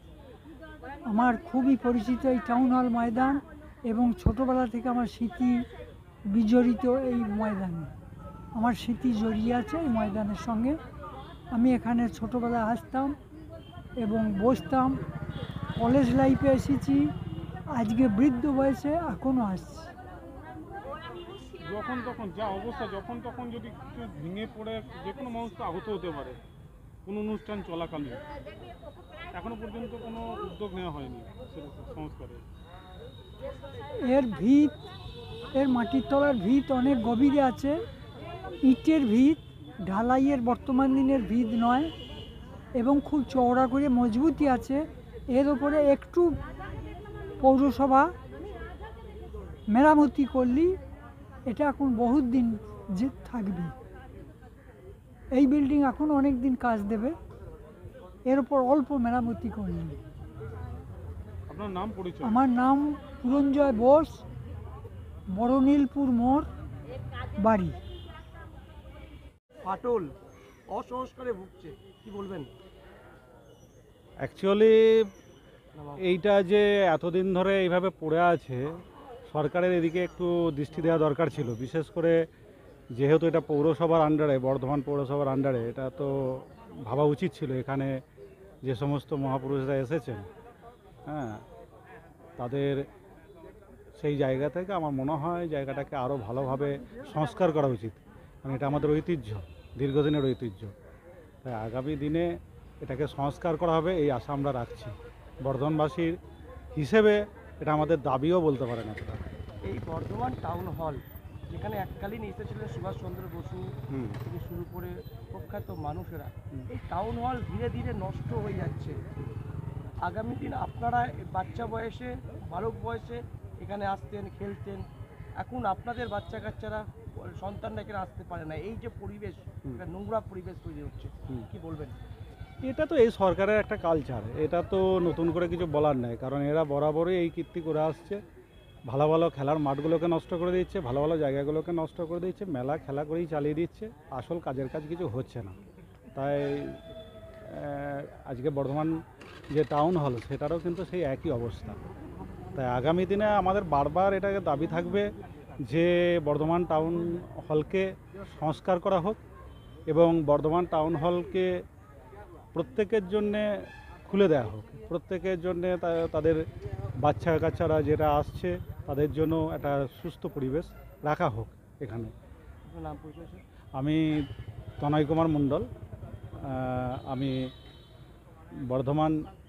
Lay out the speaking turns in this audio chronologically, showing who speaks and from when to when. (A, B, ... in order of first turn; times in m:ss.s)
0:01.1-0:05.6 A
0:06.3-0:07.9 A
0:08.5-0:10.8 A
0:11.5-0:13.2 A
0:14.0-0:15.0 A
0:15.8-0:17.1 A
0:17.7-0:19.9 A
0:21.6-0:26.4 B
0:27.0-0:28.2 B
0:29.3-0:32.4 B
0:34.0-0:34.8 A
0:35.6-0:37.7 A
0:38.7-0:41.9 A
0:42.8-0:46.3 A
0:47.4-0:48.1 A
0:49.7-0:50.7 A
0:51.5-0:53.7 A
0:55.3-0:57.2 A
0:58.3-1:00.0 A
1:01.5-1:02.4 B
1:02.2-1:04.2 A
1:05.3-1:06.4 A
1:07.4-1:07.8 A
1:09.6-1:10.1 C
1:10.7-1:12.5 C
1:14.2-1:15.0 D
1:15.7-1:16.0 C
1:16.0-1:18.7 D
1:19.3-1:22.2 D
1:23.0-1:28.0 D
1:28.6-1:30.3 D
1:31.1-1:31.4 D
1:32.4-1:32.8 D
1:34.0-1:40.7 D
1:41.4-1:42.3 D
1:42.8-1:46.2 D
1:46.7-1:49.2 D
1:49.6-1:53.6 C
1:53.9-1:54.2 D
1:54.2-1:59.0 C
2:00.0-2:04.8 C
2:05.4-2:12.0 C
2:12.6-2:18.2 D
2:18.9-2:25.5 D
2:26.1-2:26.8 D
2:27.5-2:29.0 D
2:29.5-2:31.8 D
2:32.5-2:39.2 D
2:39.9-2:41.5 D
2:42.5-2:46.4 D
2:47.0-2:52.1 D
2:52.6-2:53.4 C
2:53.8-2:54.0 D
2:54.8-2:55.7 D
2:56.4-2:57.5 D
2:58.7-2:59.2 D